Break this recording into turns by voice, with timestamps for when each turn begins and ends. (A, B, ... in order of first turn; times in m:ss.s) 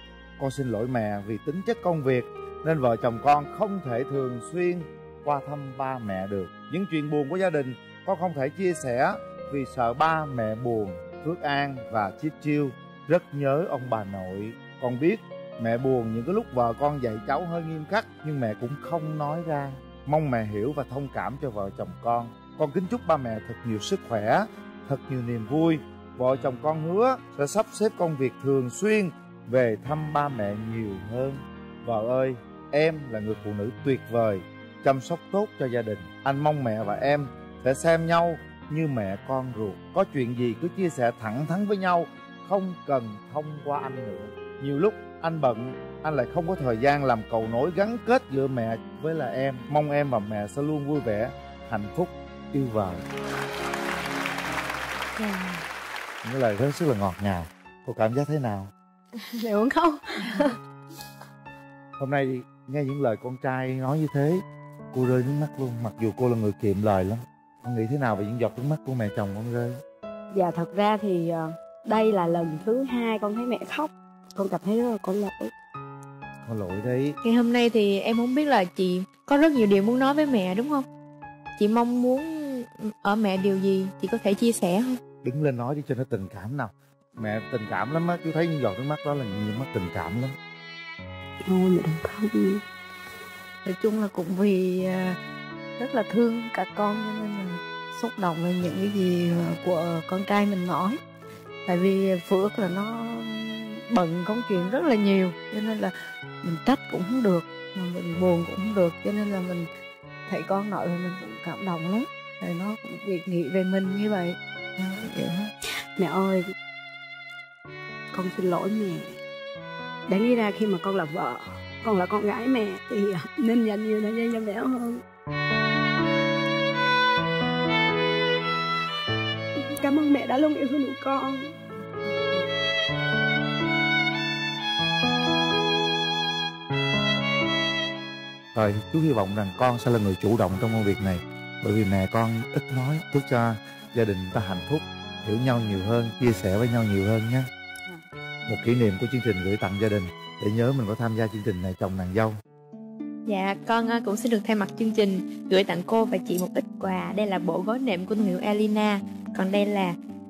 0:00.4-0:53.0 A
0:55.2-0:55.5 B
0:56.2-0:58.7 A
0:59.4-1:00.4 C
1:02.0-1:09.8 A
1:10.3-1:15.5 C
1:16.4-1:17.2 A
1:17.2-1:20.9 B
1:21.6-1:25.0 B
1:25.2-1:30.4 A
1:31.4-1:32.6 C
1:33.6-1:35.2 D
1:35.8-1:41.0 D
1:41.7-1:49.7 D
1:50.3-1:55.5 D
1:56.0-1:56.5 C
1:58.1-1:59.2 C
2:00.1-2:05.0 C
2:09.7-2:11.6 C
2:18.5-2:27.5 A
2:28.5-2:32.4 A
2:33.3-2:40.0 B